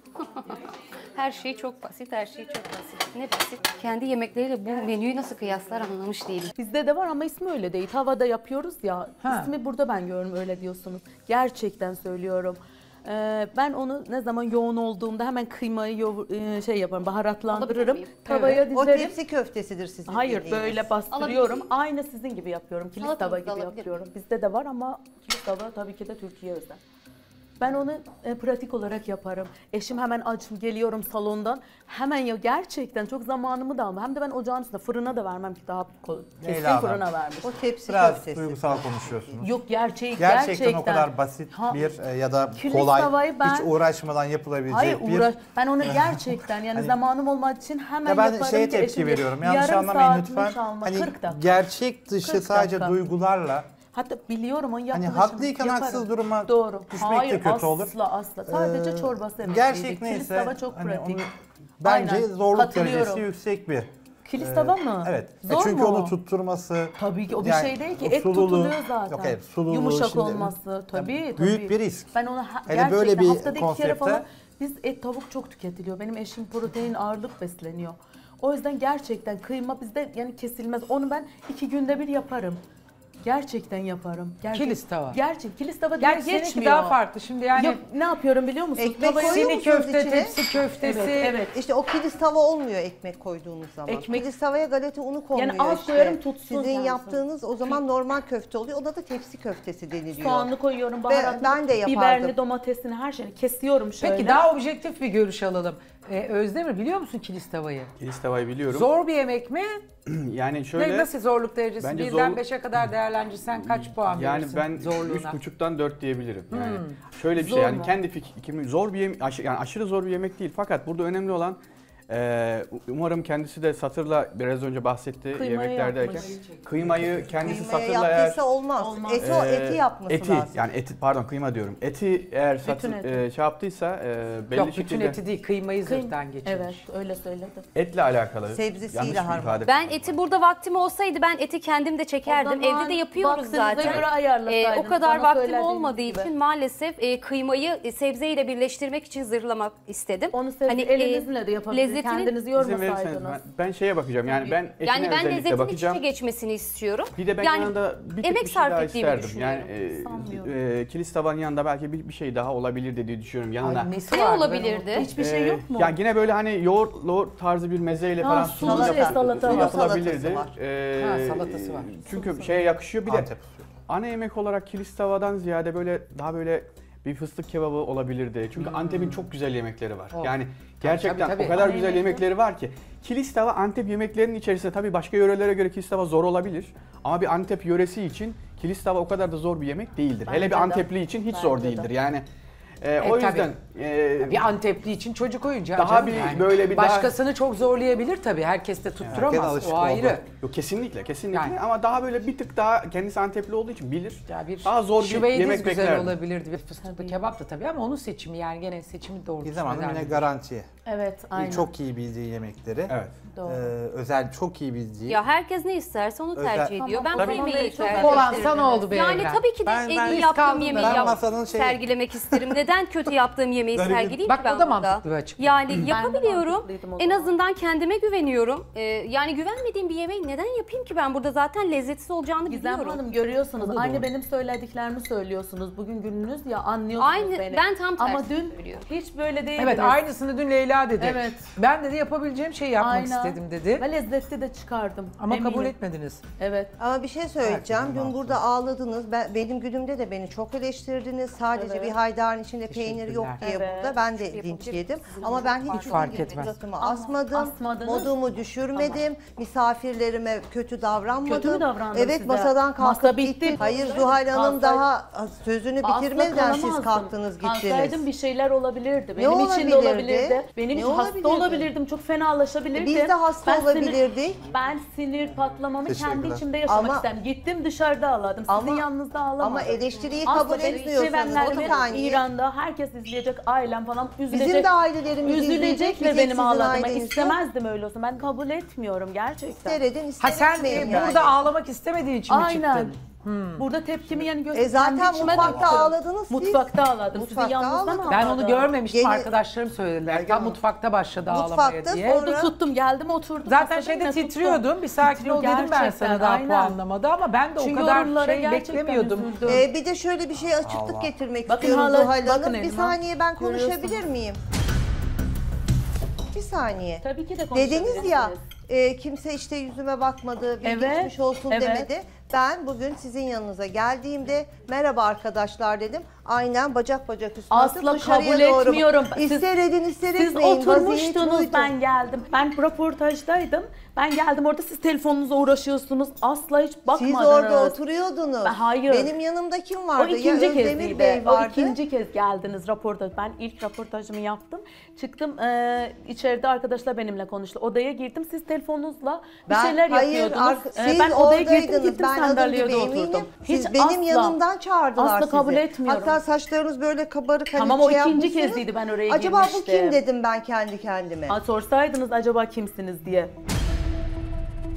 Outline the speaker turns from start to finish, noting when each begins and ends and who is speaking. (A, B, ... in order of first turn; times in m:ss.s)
0:00.2-0:00.6 A
0:01.1-0:06.5 A
0:06.6-0:19.2 B
0:09.2-0:09.5 C
0:17.5-0:18.4 A
0:18.2-0:21.0 D
0:20.0-0:26.8 B
0:21.1-0:21.7 A
0:23.0-0:23.9 A
0:27.6-0:37.6 B
0:36.4-0:37.0 E
0:37.4-0:39.4 D
0:37.8-0:39.5 E
0:39.4-0:41.9 B
0:40.2-0:45.3 E
0:42.5-0:43.7 B
0:44.7-0:51.6 B
0:45.9-0:46.2 E
0:48.0-0:53.7 E
0:52.2-0:53.0 B
0:53.9-1:01.2 B
0:54.9-0:58.0 E
0:58.5-1:01.3 E
1:01.8-1:12.1 E
1:01.8-1:03.2 B
1:04.2-1:06.2 B
1:07.0-1:22.6 B
1:12.7-1:14.2 E
1:23.2-1:27.0 B
1:24.5-1:25.2 C
1:26.0-1:27.8 C
1:27.5-1:29.5 B
1:28.8-1:30.3 D
1:29.2-1:31.4 C
1:30.8-1:31.6 B
1:31.5-1:40.5 D
1:33.9-1:34.3 B
1:35.3-1:37.8 B
1:40.1-1:44.4 B
1:41.0-1:42.4 D
1:44.0-1:47.9 C
1:48.0-1:48.9 F
1:48.7-1:49.8 C
1:50.1-1:51.1 F
1:50.7-1:55.4 C
1:51.8-1:52.9 F
1:53.5-2:08.4 F
1:56.5-1:57.0 C
1:57.4-1:58.0 B
2:05.3-2:06.3 B
2:06.2-2:07.5 C
2:07.4-2:10.6 D
2:08.8-2:09.3 B
2:09.2-2:15.2 F
2:12.6-2:13.2 B
2:14.5-2:16.8 C
2:15.8-2:17.6 B
2:17.7-2:20.1 F
2:18.5-2:19.7 D
2:19.6-2:32.3 A
2:22.2-2:26.3 B
2:23.8-2:24.1 F
2:30.3-2:33.4 B
2:32.5-2:36.0 F
2:34.2-2:39.7 A
2:37.1-2:43.9 F
2:39.9-2:40.5 B
2:43.6-2:45.1 C
2:44.1-2:45.1 A
2:44.9-2:46.0 B
2:45.1-2:53.3 F
2:48.2-2:49.8 B
2:48.5-2:50.6 D
2:51.0-2:52.6 C
2:53.0-2:53.6 E
2:53.9-3:12.2 F
2:58.6-2:59.3 C
3:00.1-3:01.6 C
3:01.5-3:02.3 B
3:10.2-3:11.9 B
3:12.8-3:14.5 F
3:13.0-3:13.5 C
3:14.2-3:20.3 C
3:15.7-3:17.1 F
3:19.0-3:19.3 F
3:19.1-3:20.2 E
3:20.4-3:26.2 F
3:21.3-3:21.6 C
3:24.3-3:30.3 C
3:26.8-3:27.2 B
3:29.4-3:30.7 E
3:30.8-3:31.7 B
3:31.3-3:35.2 E
3:32.9-3:33.2 F
3:33.2-3:33.7 B
3:35.1-3:53.0 A
3:36.3-3:38.4 E
3:36.8-3:39.0 B
3:37.8-3:39.4 C
3:39.6-3:42.6 E
3:40.0-3:41.2 C
3:43.7-3:44.2 E
3:44.2-3:45.8 C
3:45.9-3:47.3 B
3:52.5-4:00.0 B
3:53.6-3:54.0 C
3:57.0-3:58.9 A
3:59.6-4:03.8 C
4:01.0-4:01.5 B
4:02.8-4:05.7 B
4:05.2-4:06.2 C
4:06.4-4:06.7 B
4:06.8-4:28.1 D
4:07.4-4:08.4 E
4:11.5-4:12.0 B
4:12.7-4:13.4 C
4:13.4-4:14.0 B
4:13.9-4:16.6 A
4:15.7-4:16.5 C
4:16.8-4:18.1 B
4:18.7-4:19.0 B
4:21.2-4:24.8 B
4:23.6-4:24.1 A
4:25.8-4:49.8 B
4:29.2-4:31.7 D
4:32.7-4:34.4 D
4:35.8-4:36.4 E
4:36.6-4:37.0 D
4:38.5-4:38.9 D
4:39.4-4:42.2 D
4:40.0-4:42.0 A
4:44.3-4:47.4 D
4:49.5-4:51.4 D
4:50.2-4:53.6 C
4:50.6-4:51.1 B
4:52.3-4:53.0 B
4:53.5-4:58.8 B
4:54.5-4:58.2 D
4:55.2-4:55.6 A
4:55.3-4:55.6 E
4:58.1-5:02.2 C
4:58.8-4:59.3 D
5:00.1-5:00.6 D
5:01.3-5:02.5 D
5:02.0-5:06.8 B
5:03.4-5:09.6 C
5:07.6-5:09.7 B
5:09.4-5:14.4 D
5:10.6-5:11.1 E
5:11.4-5:14.1 B
5:16.3-5:31.7 D
5:17.0-5:18.4 B
5:20.6-5:21.9 B
5:27.5-5:29.5 B
5:30.0-5:37.8 B
5:36.9-5:41.8 D
5:38.4-5:39.2 B
5:40.0-5:54.4 B
5:49.4-6:01.4 D
5:55.0-5:56.2 B
5:57.5-6:00.0 B
6:01.3-6:03.3 B